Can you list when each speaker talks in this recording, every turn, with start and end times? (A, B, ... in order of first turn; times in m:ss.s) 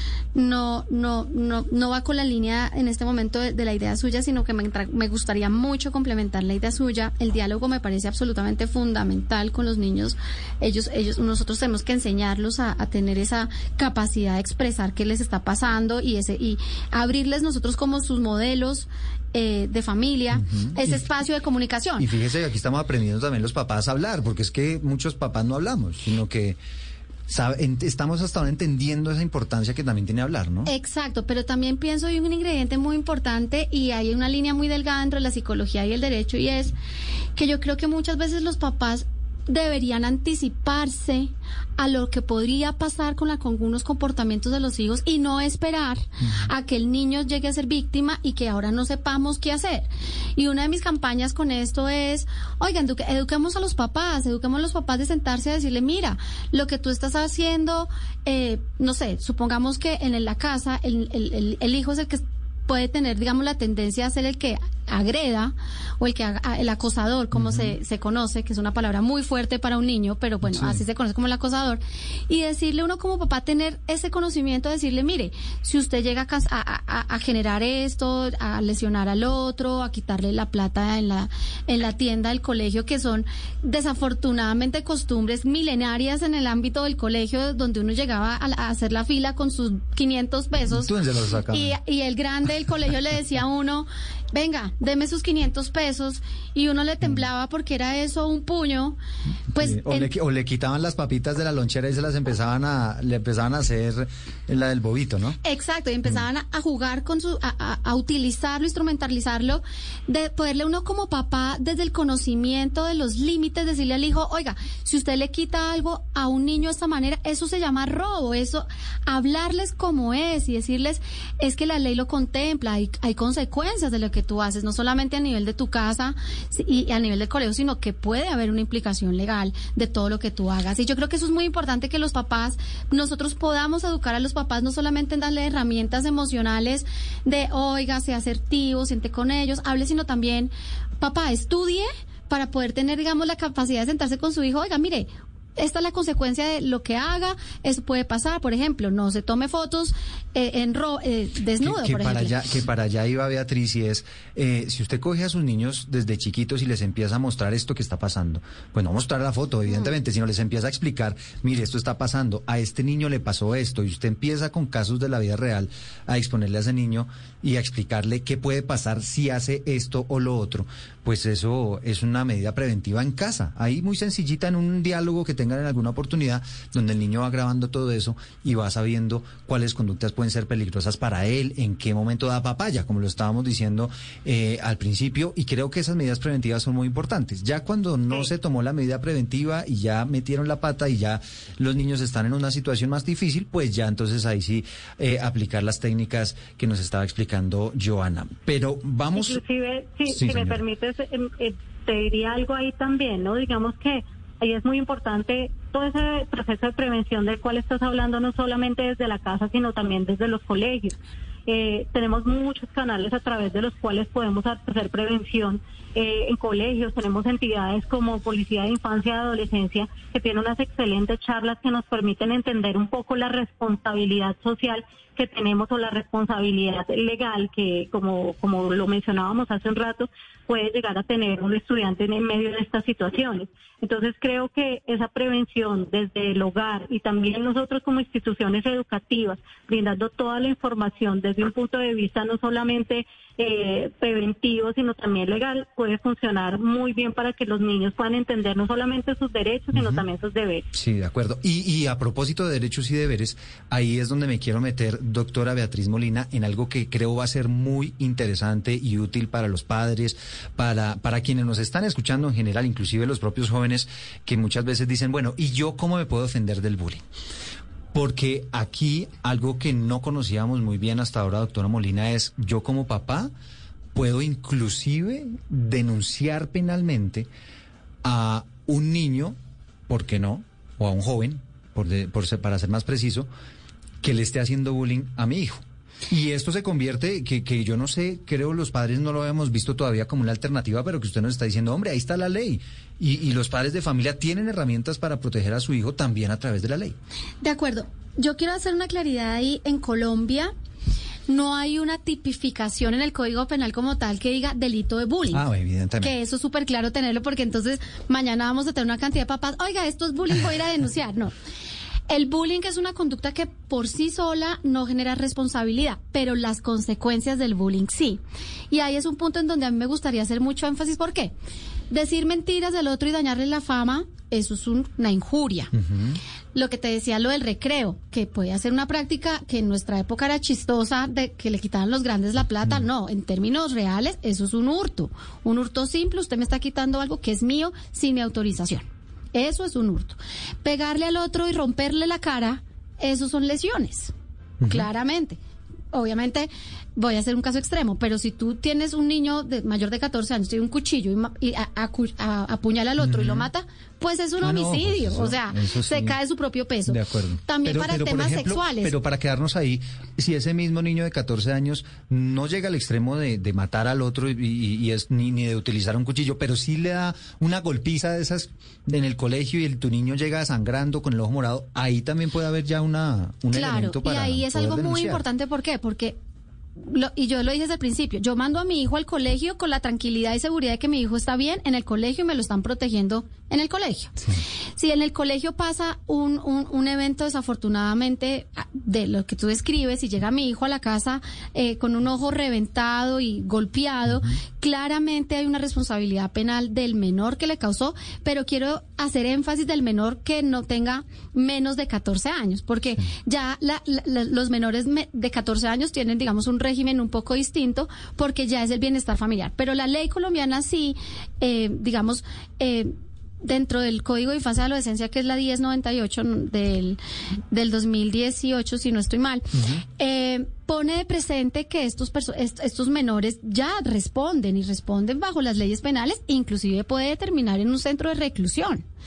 0:00.3-0:22.1 A
0:20.3-0:21.0 B
0:22.0-0:26.6 B
0:27.3-0:30.7 B
0:30.6-0:36.7 A
0:37.4-1:30.9 A
1:07.3-1:07.8 B
1:10.4-1:10.8 B
1:30.7-1:31.8 B
1:31.5-1:39.0 A
1:39.5-1:45.4 B
1:39.5-1:40.1 A
1:45.4-2:32.3 A
2:31.6-3:19.4 B
3:19.1-4:10.6 C
3:20.1-3:20.6 B
4:09.7-4:10.0 B
4:10.7-4:27.0 B
4:27.9-4:33.3 B
4:33.9-4:37.3 B
4:38.0-4:39.4 B
4:39.9-4:43.3 B
4:44.0-4:57.0 B
4:57.4-5:00.5 A
5:01.3-5:05.4 A
5:05.3-5:06.1 B
5:06.0-5:11.3 A
5:12.1-5:21.3 A
5:21.9-5:25.7 A
5:25.7-5:26.2 B
5:26.5-5:44.1 A
5:44.6-5:44.9 B
5:44.6-5:45.4 A
5:45.9-5:58.9 A
5:53.0-5:53.5 B
5:54.4-5:56.2 B
5:56.9-6:15.2 B
6:13.5-6:16.2 A
6:16.8-6:24.1 A
6:24.8-6:57.0 A
6:34.1-6:34.4 B
6:57.5-7:08.8 A
6:59.5-6:59.8 B